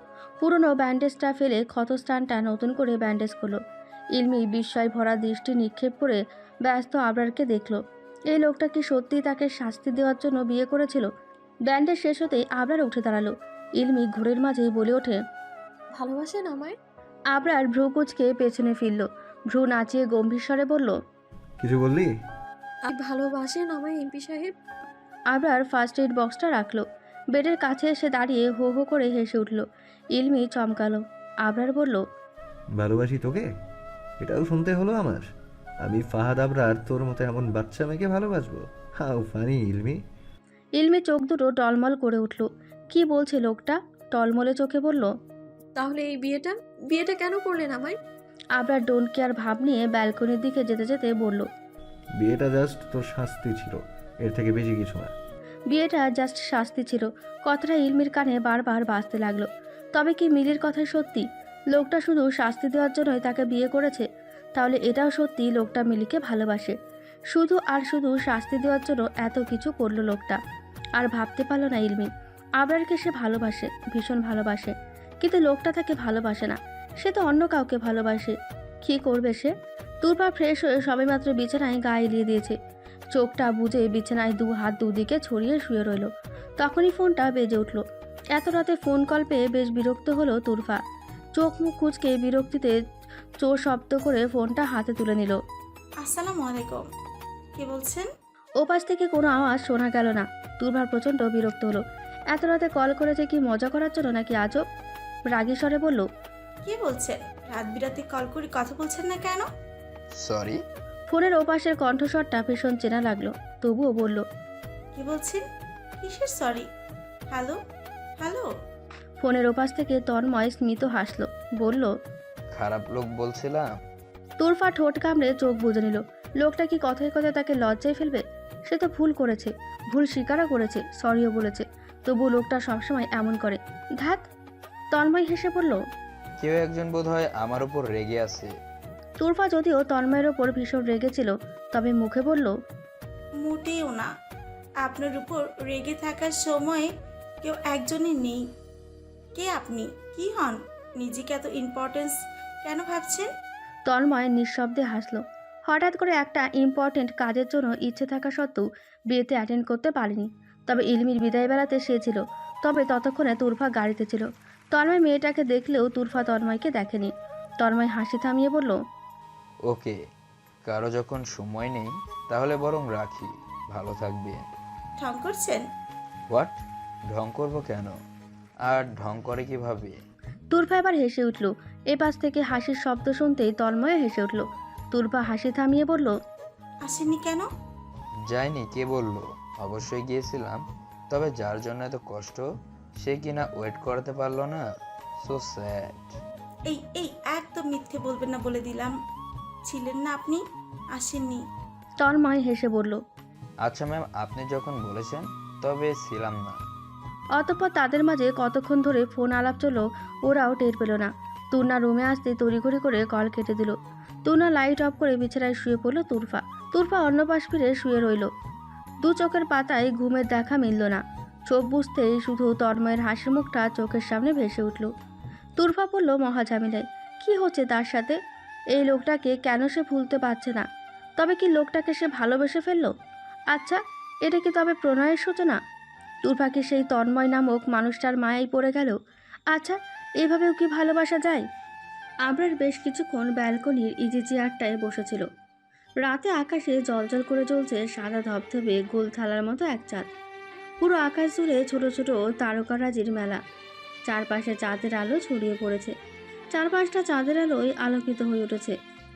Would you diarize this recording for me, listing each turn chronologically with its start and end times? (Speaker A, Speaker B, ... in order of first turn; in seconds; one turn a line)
Speaker A: 0.4-3.6
Speaker A: 4.2-7.8
Speaker A: 8.3-11.1
Speaker A: 11.7-15.2
Speaker B: 16.0-16.8
Speaker A: 17.3-20.9
Speaker C: 21.6-22.1
Speaker B: 22.9-24.5
Speaker A: 25.3-29.6
Speaker A: 30.1-32.0
Speaker C: 32.8-33.5
Speaker C: 34.2-35.2
Speaker C: 35.8-40.0
Speaker A: 40.8-45.1
Speaker B: 45.8-48.0
Speaker A: 48.6-51.5
Speaker C: 52.2-55.1
Speaker A: 55.7-66.8
Speaker A: 67.3-70.4
Speaker A: 71.0-79.5
Speaker A: 80.0-82.6
Speaker A: 83.1-86.1
Speaker A: 86.6-87.8
Speaker A: 88.4-90.8
Speaker A: 91.4-92.7
Speaker A: 93.4-95.4
Speaker D: 96.0-96.8
Speaker D: 97.6-98.1
Speaker A: 98.6-101.8
Speaker A: 102.3-104.6
Speaker A: 105.3-106.1
Speaker D: 106.7-109.5
Speaker E: 110.2-110.6
Speaker A: 111.1-114.2
Speaker D: 115.0-115.4
Speaker D: 116.0-116.7
Speaker D: 117.3-117.6
Speaker D: 118.2-118.5
Speaker A: 119.2-121.9
Speaker E: 122.5-123.7
Speaker A: 124.4-134.2
Speaker A: 134.9-135.8
Speaker E: 136.4-138.5
Speaker A: 139.2-142.5
Speaker D: 143.4-144.1
Speaker D: 144.8-146.9
Speaker D: 147.4-148.4
Speaker D: 149.4-153.3
Speaker A: 153.9-168.8
Speaker E: 169.7-170.0
Speaker E: 170.6-174.5
Speaker D: 175.0-175.6
Speaker E: 176.3-177.9
Speaker E: 178.7-180.0
Speaker A: 180.5-186.1
Speaker D: 186.8-187.5
Speaker E: 188.3-192.4
Speaker E: 193.0-194.6
Speaker E: 195.2-196.2
Speaker D: 196.7-198.9
Speaker D: 199.7-200.4
Speaker D: 200.9-201.4
Speaker A: 202.0-203.0
Speaker E: 203.6-206.6
Speaker A: 207.4-218.3
Speaker A: 219.0-224.9
Speaker A: 225.6-228.2
Speaker A: 228.8-230.6
Speaker A: 231.2-232.9
Speaker A: 233.5-235.6
Speaker A: 236.2-238.9
Speaker A: 239.5-241.4
Speaker A: 242.3-245.2
Speaker A: 246.0-250.1
Speaker A: 250.8-253.4
Speaker A: 254.1-255.9
Speaker A: 256.5-258.8